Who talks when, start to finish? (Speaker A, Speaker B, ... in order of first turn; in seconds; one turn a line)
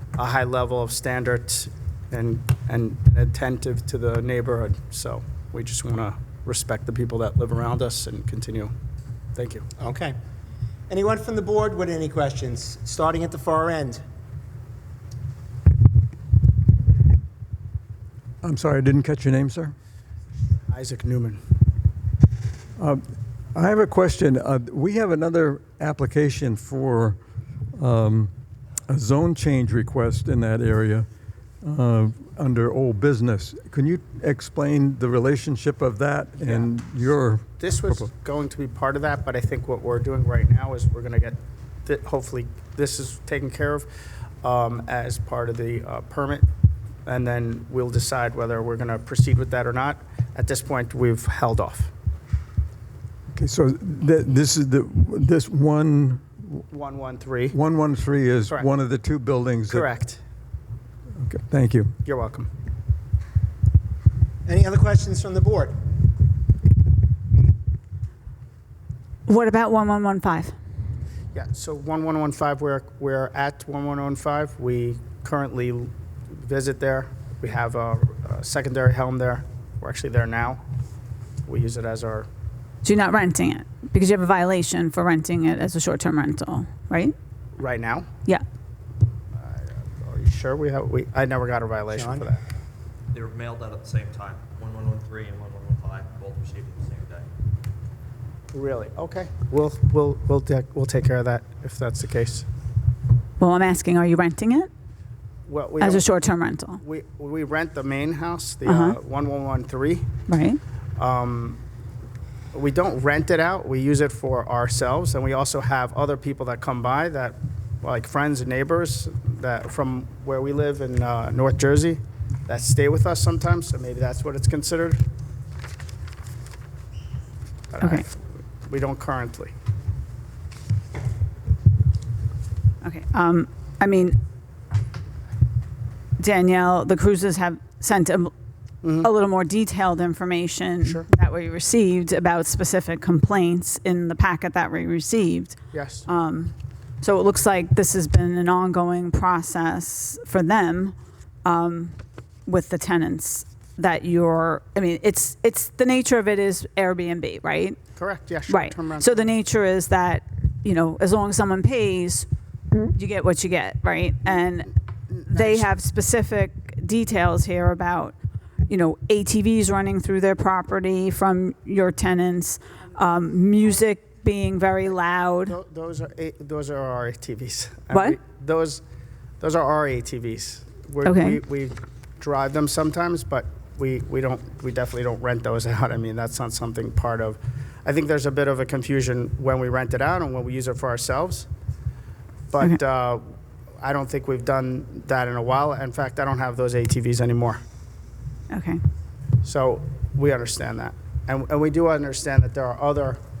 Speaker A: 0.1-8.7
Speaker A: 9.3-9.7
Speaker B: 9.8-10.1
Speaker B: 10.9-14.0
Speaker C: 18.4-19.7
Speaker A: 20.7-21.4
Speaker C: 23.5-27.2
Speaker C: 27.8-28.3
Speaker C: 28.9-31.1
Speaker C: 31.6-38.1
Speaker A: 36.4-36.7
Speaker A: 37.6-43.9
Speaker A: 44.4-46.5
Speaker A: 47.0-51.9
Speaker C: 53.3-56.6
Speaker A: 56.7-57.5
Speaker C: 57.5-59.9
Speaker A: 59.7-60.2
Speaker C: 61.2-61.9
Speaker A: 62.0-62.5
Speaker B: 64.5-65.7
Speaker D: 69.3-70.5
Speaker A: 71.3-80.6
Speaker A: 81.5-82.3
Speaker D: 82.8-87.1
Speaker A: 87.5-88.1
Speaker A: 89.3-92.4
Speaker B: 91.9-92.2
Speaker E: 93.1-97.2
Speaker A: 98.5-102.5
Speaker D: 103.4-104.7
Speaker A: 105.5-106.1
Speaker D: 105.8-106.8
Speaker A: 106.8-110.1
Speaker D: 108.6-109.0
Speaker D: 110.3-110.6
Speaker A: 111.0-111.6
Speaker A: 112.5-125.0
Speaker A: 127.7-129.5
Speaker D: 132.8-134.2
Speaker D: 136.2-138.3
Speaker A: 138.8-139.1
Speaker D: 139.0-157.8
Speaker A: 140.8-141.1
Speaker A: 145.7-146.1
Speaker A: 157.9-159.3
Speaker D: 158.5-162.3
Speaker D: 162.9-164.7
Speaker A: 165.1-165.7
Speaker D: 165.3-168.1
Speaker D: 168.7-175.6
Speaker A: 175.4-178.8
Speaker D: 177.9-178.2
Speaker A: 179.4-191.5
Speaker D: 181.0-181.4
Speaker A: 192.5-193.2
Speaker A: 193.8-197.6
Speaker D: 198.5-198.8
Speaker A: 199.4-203.2